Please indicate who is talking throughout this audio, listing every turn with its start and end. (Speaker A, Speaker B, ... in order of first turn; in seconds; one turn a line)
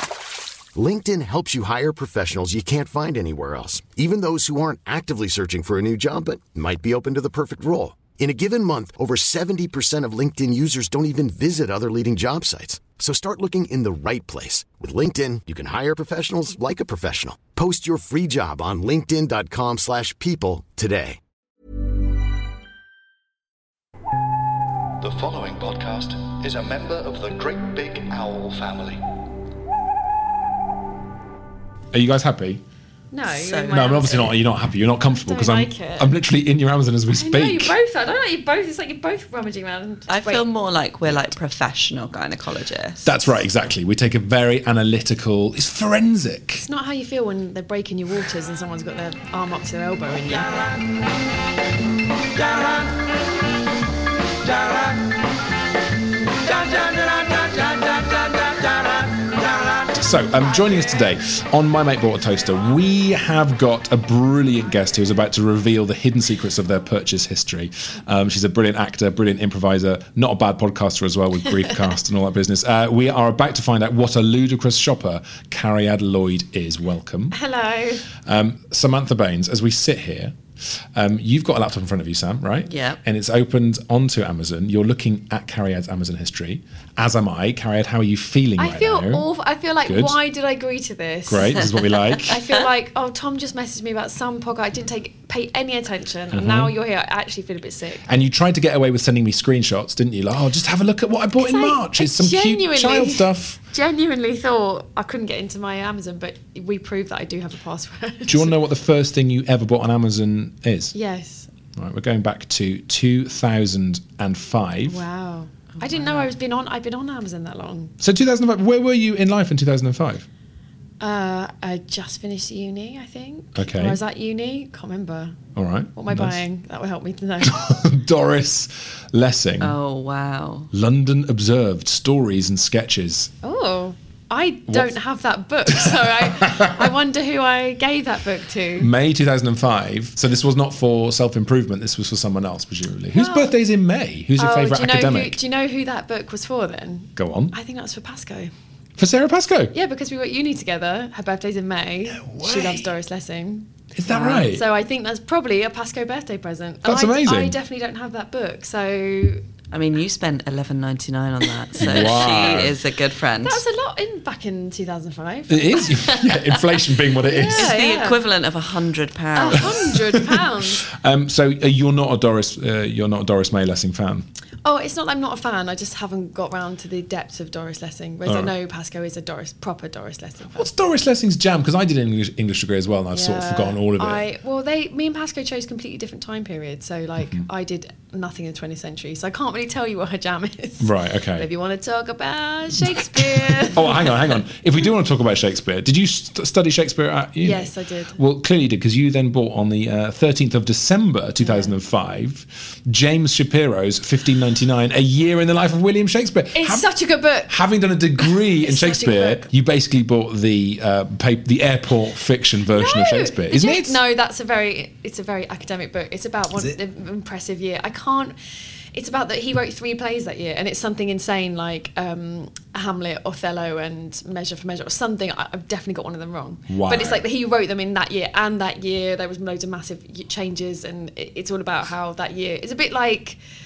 Speaker A: 0.7-21.2
Speaker B: 25.0-29.0
Speaker C: 31.9-32.6
Speaker D: 33.1-34.4
Speaker E: 33.3-34.0
Speaker C: 33.7-37.7
Speaker D: 35.1-36.1
Speaker D: 37.1-40.4
Speaker E: 40.1-43.1
Speaker C: 43.0-46.6
Speaker D: 46.6-50.8
Speaker C: 59.9-77.4
Speaker D: 77.3-78.1
Speaker C: 78.2-80.4
Speaker C: 80.9-89.2
Speaker E: 82.7-83.0
Speaker D: 88.6-91.7
Speaker C: 89.8-90.2
Speaker C: 91.3-92.3
Speaker D: 92.2-98.1
Speaker C: 96.3-96.7
Speaker C: 98.0-103.6
Speaker D: 101.4-108.5
Speaker C: 108.3-110.9
Speaker D: 110.9-111.5
Speaker C: 111.7-115.0
Speaker D: 114.8-117.9
Speaker E: 115.7-116.3
Speaker C: 118.0-120.3
Speaker D: 121.0-125.4
Speaker C: 123.5-124.0
Speaker C: 125.5-126.4
Speaker D: 125.9-127.8
Speaker C: 127.4-129.8
Speaker E: 129.6-130.7
Speaker C: 130.7-133.3
Speaker D: 133.4-138.9
Speaker C: 134.7-134.9
Speaker C: 135.7-136.9
Speaker C: 138.8-145.4
Speaker D: 143.1-143.5
Speaker D: 144.4-148.5
Speaker C: 147.2-147.5
Speaker C: 149.0-149.7
Speaker D: 149.7-159.4
Speaker C: 152.1-152.9
Speaker C: 153.9-154.6
Speaker C: 156.8-157.6
Speaker E: 159.7-163.6
Speaker C: 161.8-162.8
Speaker D: 161.8-162.7
Speaker D: 163.4-166.2
Speaker C: 165.5-167.9
Speaker D: 167.2-168.2
Speaker E: 167.5-169.9
Speaker D: 169.3-170.8
Speaker C: 169.6-174.3
Speaker D: 174.6-180.7
Speaker C: 178.2-178.5
Speaker C: 180.5-184.2
Speaker D: 183.1-194.2
Speaker C: 190.8-191.5
Speaker C: 192.8-206.9
Speaker D: 197.4-198.2
Speaker D: 201.4-201.7
Speaker D: 206.5-207.5
Speaker C: 207.5-214.0
Speaker D: 208.2-209.4
Speaker D: 212.7-218.3
Speaker D: 218.9-233.4
Speaker C: 226.7-227.2